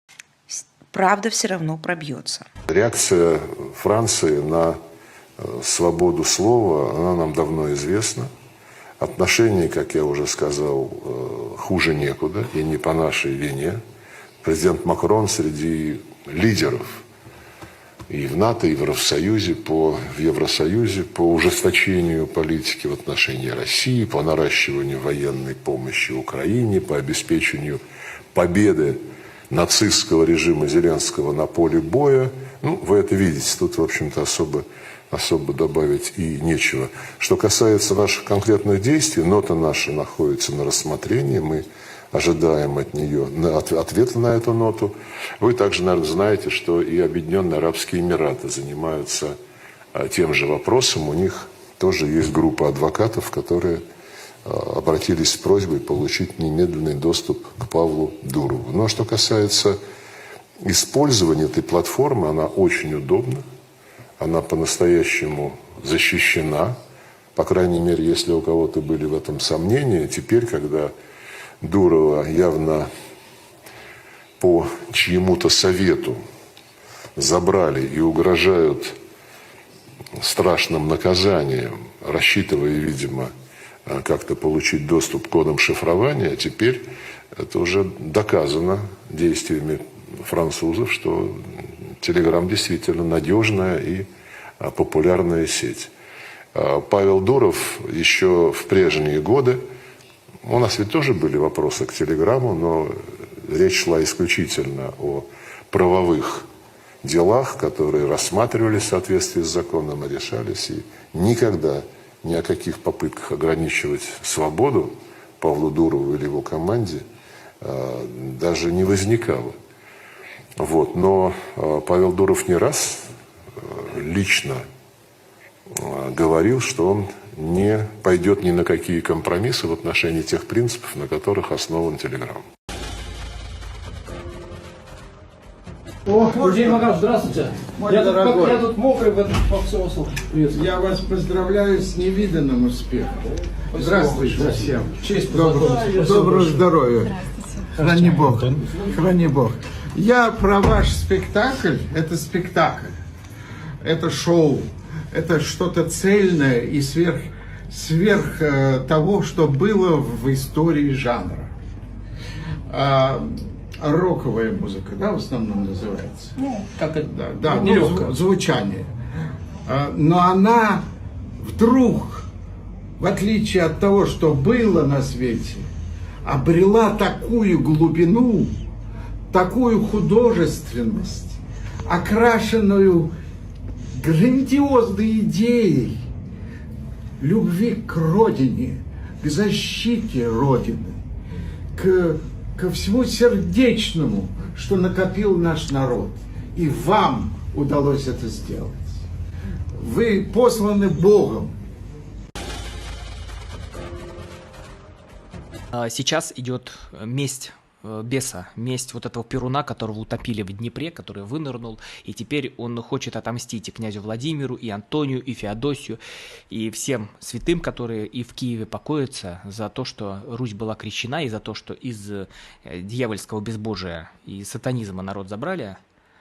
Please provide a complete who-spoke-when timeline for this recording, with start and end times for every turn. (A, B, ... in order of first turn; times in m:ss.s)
0:00.5-0:02.5 A
0:02.7-0:04.8 B
0:05.4-0:08.3 B
0:09.0-0:13.8 B
0:14.4-0:17.0 B
0:18.1-0:27.8 B
0:28.3-0:49.3 B
0:50.0-0:53.8 B
0:54.5-0:59.8 B
1:00.6-1:03.4 B
1:04.2-1:06.7 B
1:07.4-1:10.9 B
1:11.6-1:12.9 B
1:14.4-1:16.2 B
1:17.2-1:19.0 B
1:20.2-1:23.3 B
1:23.9-1:26.8 B
1:27.4-1:34.1 B
1:34.6-1:35.9 B
1:36.5-1:39.6 B
1:40.4-1:46.5 B
1:47.0-1:57.0 B
1:57.6-1:59.6 B
2:00.6-2:04.6 B
2:05.8-2:12.4 B
2:16.1-2:20.6 C
2:16.2-2:17.0 D
2:17.7-2:18.7 D
2:20.5-2:23.2 D
2:23.7-2:27.2 D
2:23.8-2:26.6 C
2:27.8-2:33.0 D
2:27.8-2:28.2 C
2:33.8-2:41.6 D
2:42.7-2:46.3 D
2:46.6-2:46.9 C
2:47.0-2:48.9 D
2:47.7-2:48.0 C
2:49.7-2:50.8 D
2:51.4-2:52.3 D
2:53.0-2:55.7 D
2:56.2-2:58.6 D
2:59.3-3:03.1 D
3:04.0-3:06.0 D
3:07.2-3:11.0 D
3:11.8-3:19.0 D
3:19.7-3:21.5 D
3:25.7-3:45.8 E